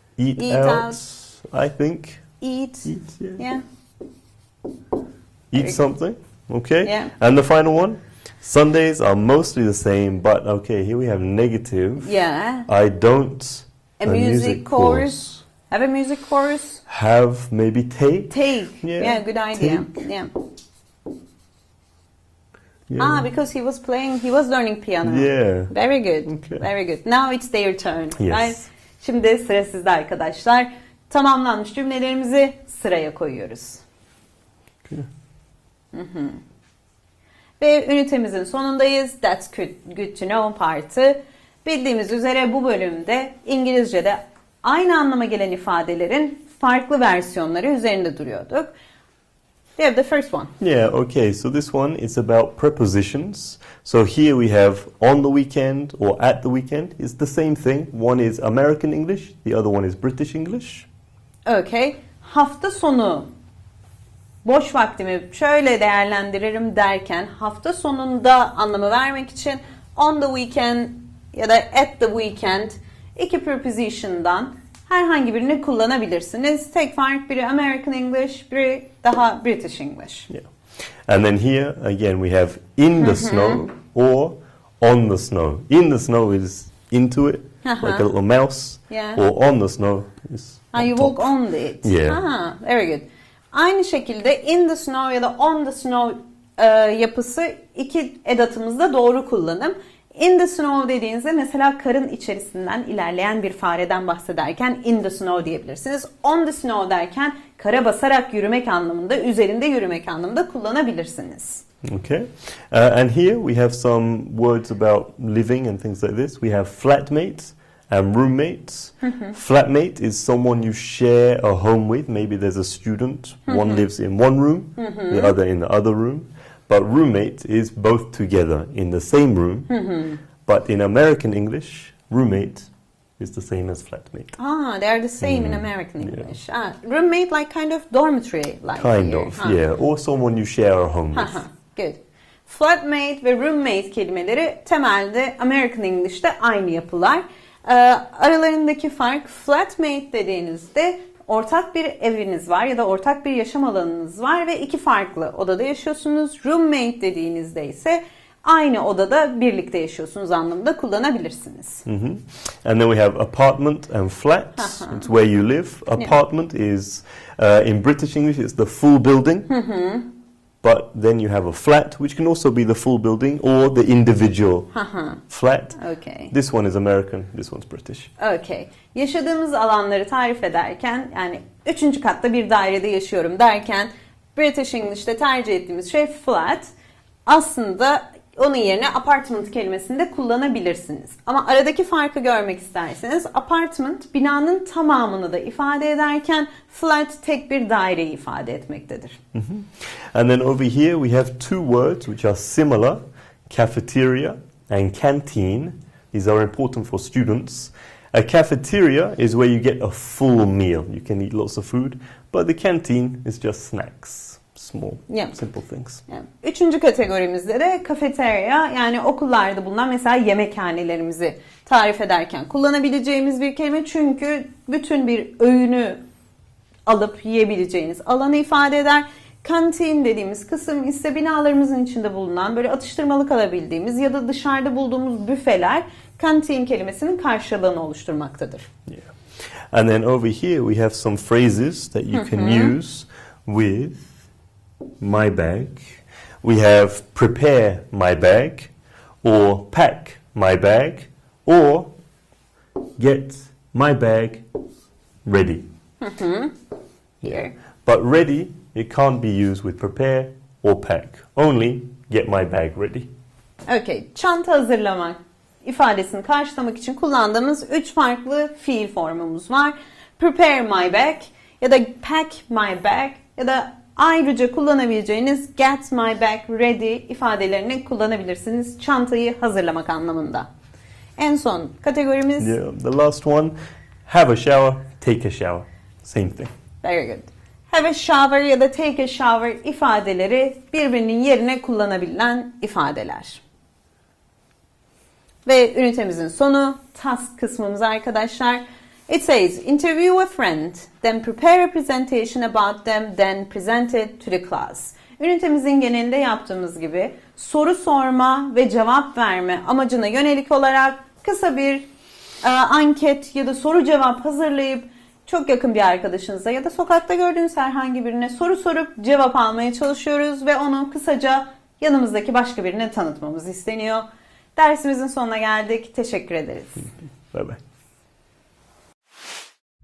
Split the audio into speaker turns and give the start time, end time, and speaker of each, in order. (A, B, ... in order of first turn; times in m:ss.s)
0:00.2-0:02.3 A
0:00.4-0:01.0 B
0:02.4-0:03.6 B
0:02.8-0:03.4 A
0:05.5-0:12.2 A
0:06.8-0:07.1 B
0:12.0-0:12.7 B
0:12.7-0:15.4 A
0:14.0-0:16.8 B
0:16.9-0:19.9 A
0:18.3-0:20.3 B
0:22.9-0:23.3 A
0:23.0-0:33.8 B
0:25.0-0:25.7 A
0:26.3-0:26.7 A
0:28.2-0:28.6 A
0:35.9-0:36.4 B
0:37.6-0:48.7 B
0:49.8-0:50.5 B
0:50.6-1:00.9 A
1:01.5-1:03.3 B
1:04.4-1:20.3 B
1:21.1-1:32.2 A
1:23.0-1:23.6 B
1:27.6-1:28.1 B
1:28.9-1:29.2 B
1:30.7-1:51.6 B
1:51.8-2:09.7 A
1:59.0-1:59.4 B
2:03.5-2:03.8 B
2:04.8-2:05.3 B
2:09.7-2:10.2 B
2:10.5-2:14.4 A
2:14.4-2:19.6 B
2:15.2-2:16.3 A
2:18.8-2:21.4 A
2:21.1-2:41.8 B
2:41.9-2:49.5 A
2:44.6-2:45.1 B
2:49.5-2:50.1 B
2:50.6-2:54.7 A
2:54.7-2:55.2 B
2:55.3-2:55.8 A
2:55.8-2:56.3 B
2:56.3-2:58.1 A
2:58.2-3:06.7 B
3:07.3-3:19.2 B
3:19.3-3:36.0 A
3:35.1-3:35.4 B
3:36.1-3:46.0 B
3:46.9-3:58.7 B
3:58.9-4:04.1 A
4:02.1-4:02.8 B
4:05.0-4:08.7 A
4:09.2-4:11.9 A
4:13.0-4:14.4 A
4:15.2-4:15.7 A
4:16.0-4:16.5 B
4:17.2-4:23.1 A
4:17.2-4:17.5 B
4:23.7-4:40.5 B
4:41.2-4:42.5 B
4:42.4-4:46.5 A
4:46.8-4:53.4 B
4:55.5-5:11.9 B
5:12.4-5:26.9 B
5:27.3-5:27.6 A